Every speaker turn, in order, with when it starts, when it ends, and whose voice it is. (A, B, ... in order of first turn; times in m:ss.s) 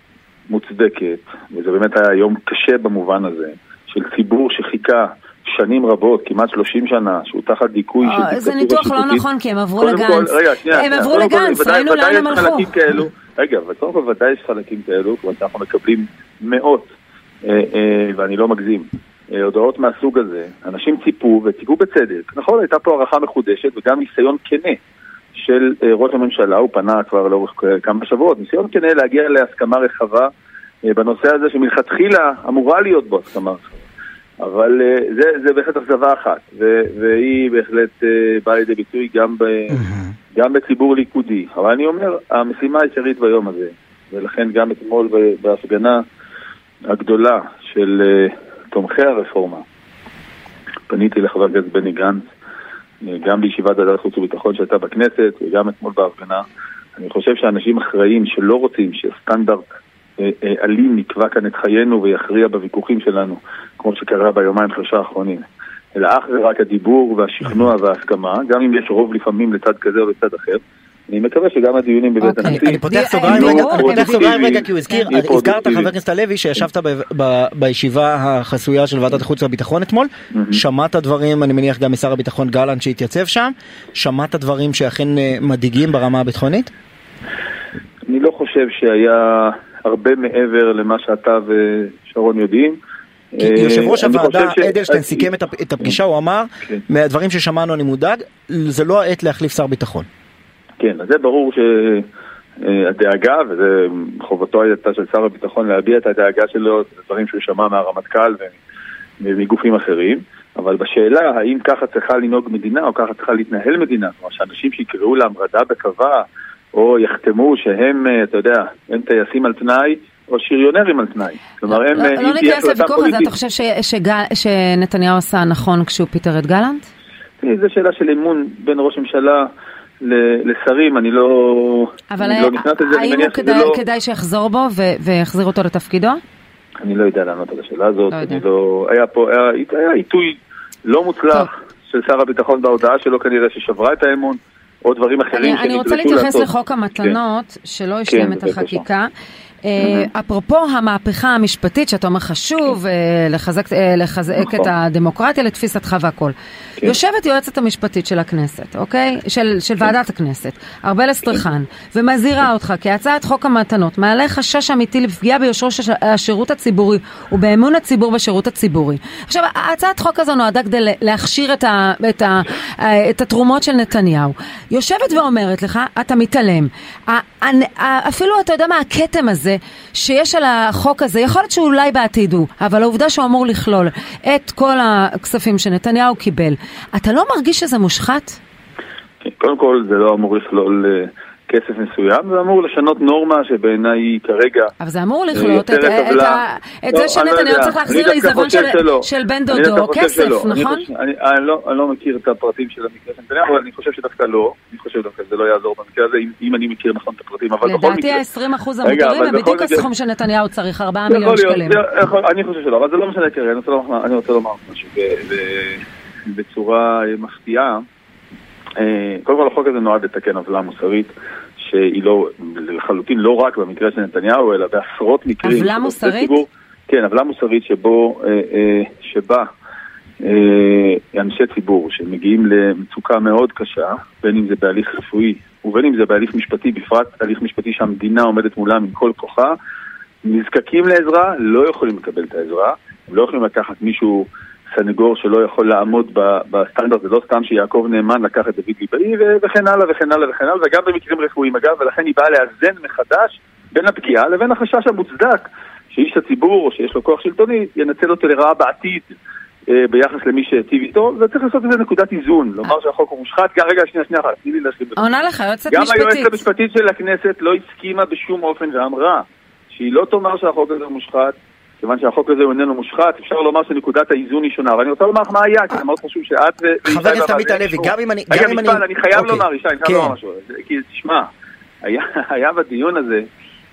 0:00.5-0:09.2 A
0:08.0-0:13.1 B
0:09.8-0:16.9 A
0:17.4-0:24.8 A
0:25.3-0:30.3 A
0:30.8-0:33.8 A
0:34.4-0:39.8 A
0:39.7-0:40.1 C
0:40.3-0:46.0 A
0:46.9-0:49.6 A
0:50.9-0:52.3 A
0:53.0-0:56.4 A
0:57.0-0:59.6 A
1:00.2-1:05.4 A
1:05.9-1:15.9 A
1:12.2-1:15.1 B
1:12.5-1:26.7 C
1:20.3-1:20.6 A
1:28.1-1:32.8 A
1:33.3-1:36.0 A
1:33.4-1:40.0 C
1:40.8-1:42.0 A
1:42.6-1:48.6 A
1:49.2-2:03.3 A
2:01.7-2:06.8 B
2:07.4-2:09.5 A
2:10.0-2:13.8 A
2:12.1-2:16.2 B
2:16.8-2:26.5 A
2:18.1-2:18.4 B
2:25.3-2:29.1 B
2:28.1-2:28.8 A
2:29.6-3:08.4 B
2:29.8-2:30.1 A
2:34.4-2:34.7 A
3:09.2-3:14.7 A
3:14.8-3:20.9 B
3:15.3-3:28.2 A
3:27.6-3:31.8 B
3:28.8-3:29.8 A
3:31.1-3:37.8 A
3:38.8-3:49.4 A
3:45.4-3:46.4 B
3:50.2-3:59.5 A
4:00.2-4:19.2 A
4:19.7-4:25.0 A
4:25.0-4:26.4 B
4:25.7-4:41.3 A
4:36.8-4:40.2 C
4:41.8-4:43.2 A